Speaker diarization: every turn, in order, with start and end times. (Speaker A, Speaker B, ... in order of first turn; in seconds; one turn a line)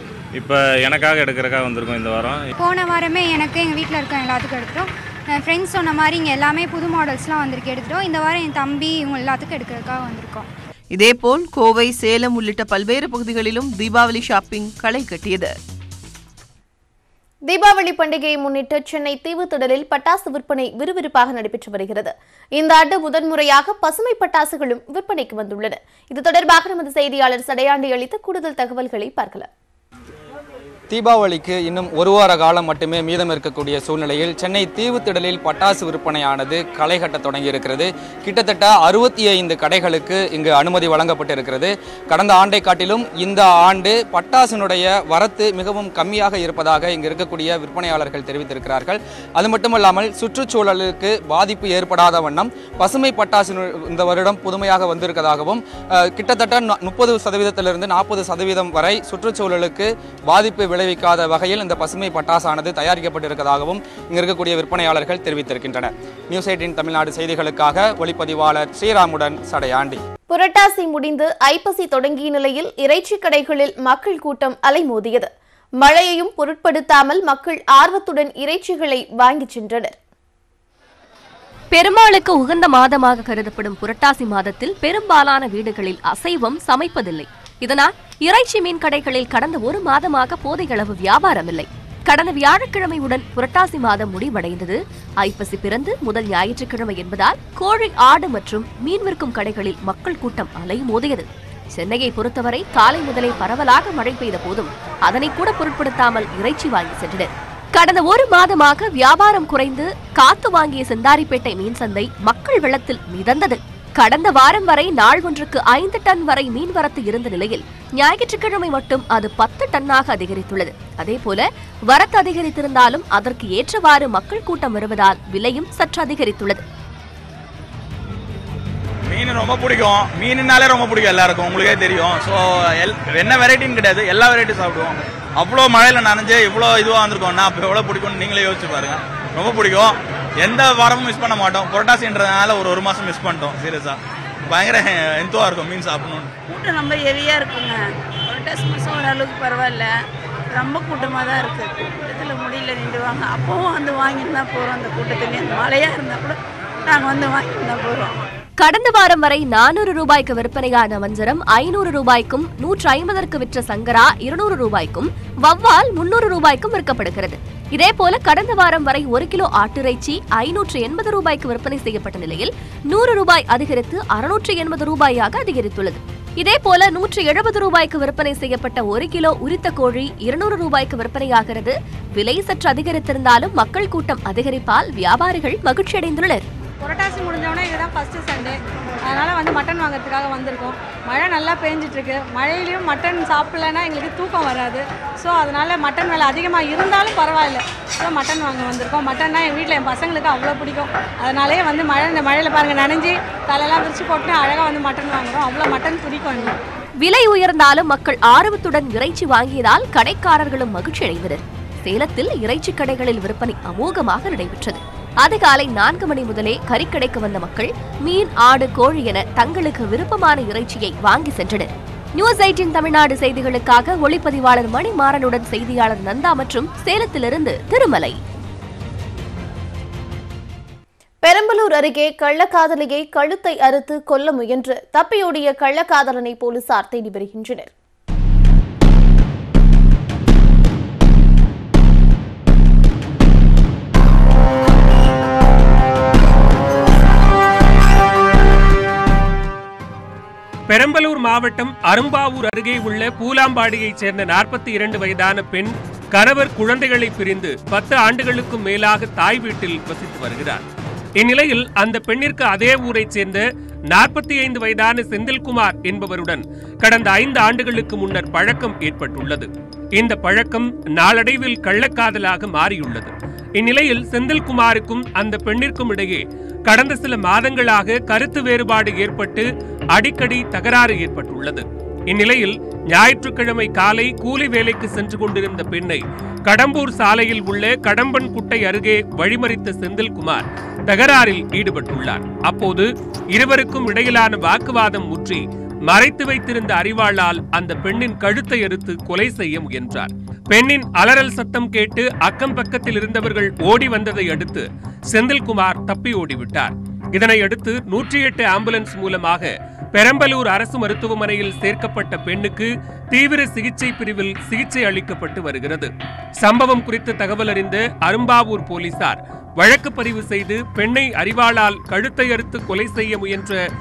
Speaker A: 0.3-2.5
Speaker B: 2.6-10.5
Speaker C: 10.9-15.5
Speaker D: 17.5-29.5
Speaker E: 30.9-70.0
Speaker D: 70.3-75.3
Speaker D: 75.8-80.0
Speaker F: 81.7-126.6
Speaker G: 129.1-143.9
Speaker G: 144.5-146.3
Speaker H: 146.5-149.9
Speaker H: 150.5-158.2
Speaker F: 158.6-186.4
Speaker I: 186.8-188.6
Speaker I: 189.1-206.6
Speaker F: 207.0-228.2
Speaker D: 231.2-237.7
Speaker J: 250.7-260.6
Speaker J: 261.2-315.9
Speaker J: 316.4-323.6